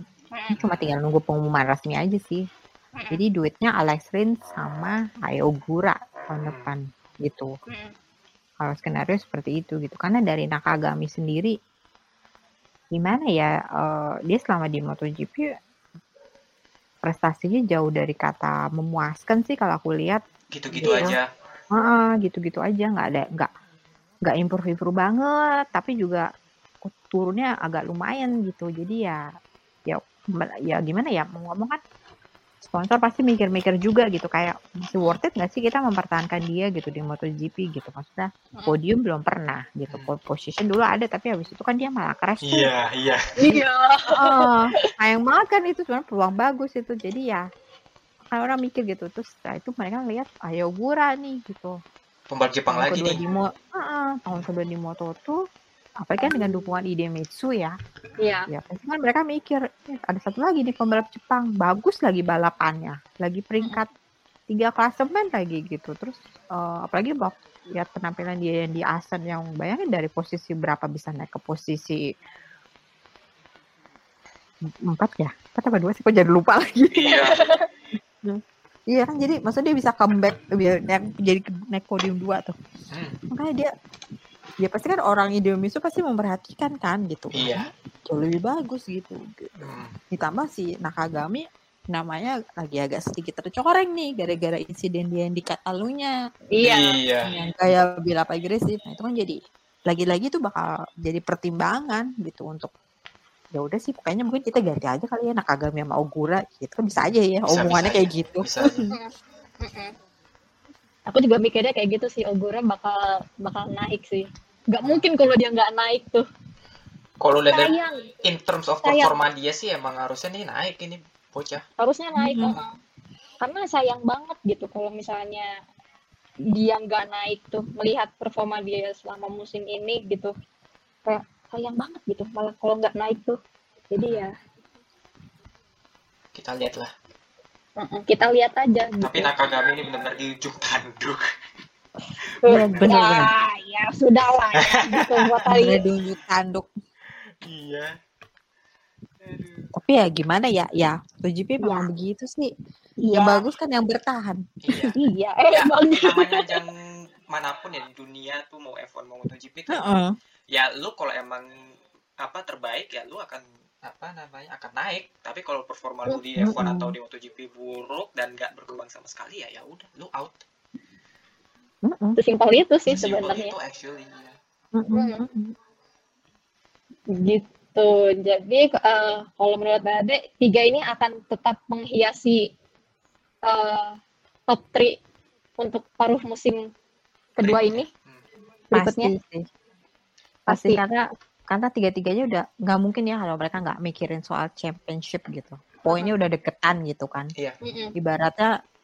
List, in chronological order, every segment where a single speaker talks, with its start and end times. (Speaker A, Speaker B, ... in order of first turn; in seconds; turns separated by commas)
Speaker A: 0.5-1.0, Speaker B: 0.6-2.4, Speaker C: 3.0-3.2, Speaker B: 3.1-7.5, Speaker A: 6.4-6.7, Speaker B: 8.6-11.5, Speaker B: 12.9-15.4, Speaker B: 17.1-20.2, Speaker A: 20.5-21.2, Speaker B: 20.7-21.2, Speaker B: 21.7-23.5, Speaker B: 24.2-26.2, Speaker B: 26.8-29.2, Speaker B: 29.9-31.8, Speaker B: 32.6-42.7, Speaker A: 42.4-43.2, Speaker C: 43.4-44.5, Speaker B: 44.1-47.4, Speaker B: 48.3-51.7, Speaker A: 52.3-53.2, Speaker B: 52.7-55.4, Speaker B: 56.0-57.7, Speaker C: 58.2-58.5, Speaker B: 58.5-63.9, Speaker B: 64.5-72.0, Speaker B: 74.7-77.3, Speaker A: 76.9-77.5, Speaker C: 77.1-77.6, Speaker B: 78.2-82.5, Speaker A: 82.9-83.2, Speaker B: 83.3-83.7, Speaker B: 84.6-91.4, Speaker A: 87.3-87.7, Speaker A: 89.6-90.0, Speaker B: 91.9-96.1, Speaker C: 96.5-97.0, Speaker A: 96.6-97.3, Speaker B: 97.2-99.3, Speaker B: 99.9-102.7, Speaker B: 103.5-108.9, Speaker A: 107.5-108.9, Speaker C: 109.6-109.9, Speaker C: 111.1-116.2, Speaker A: 114.8-115.1, Speaker A: 117.2-121.6, Speaker C: 117.5-118.1, Speaker C: 118.8-119.1, Speaker C: 121.8-122.7, Speaker B: 122.2-122.5, Speaker C: 123.4-125.5, Speaker C: 126.5-130.3, Speaker C: 131.1-133.4, Speaker C: 133.9-134.3, Speaker A: 134.0-134.3, Speaker A: 136.3-136.9, Speaker C: 137.8-139.3, Speaker A: 139.0-141.2, Speaker C: 142.4-145.8, Speaker A: 142.4-142.9, Speaker B: 142.5-143.3, Speaker A: 144.6-145.3, Speaker B: 145.4-146.7, Speaker A: 147.4-148.0, Speaker A: 149.2-149.7, Speaker B: 149.7-152.5, Speaker C: 153.0-153.4, Speaker B: 153.1-154.9, Speaker A: 154.6-154.9, Speaker C: 154.9-156.6, Speaker A: 155.5-160.0, Speaker B: 159.7-160.1, Speaker A: 160.5-161.5, Speaker A: 162.2-170.4, Speaker B: 166.1-166.9, Speaker B: 171.8-172.2, Speaker C: 172.2-173.5, Speaker A: 172.9-174.3, Speaker B: 174.7-175.5, Speaker C: 174.9-175.2, Speaker C: 177.1-182.5, Speaker C: 183.4-184.9, Speaker C: 185.6-186.7, Speaker C: 187.4-187.9, Speaker A: 187.4-188.2, Speaker C: 188.7-189.1, Speaker B: 188.7-189.4, Speaker B: 190.5-197.3, Speaker C: 190.5-190.8, Speaker C: 195.8-196.1, Speaker C: 197.6-197.9, Speaker B: 198.0-198.5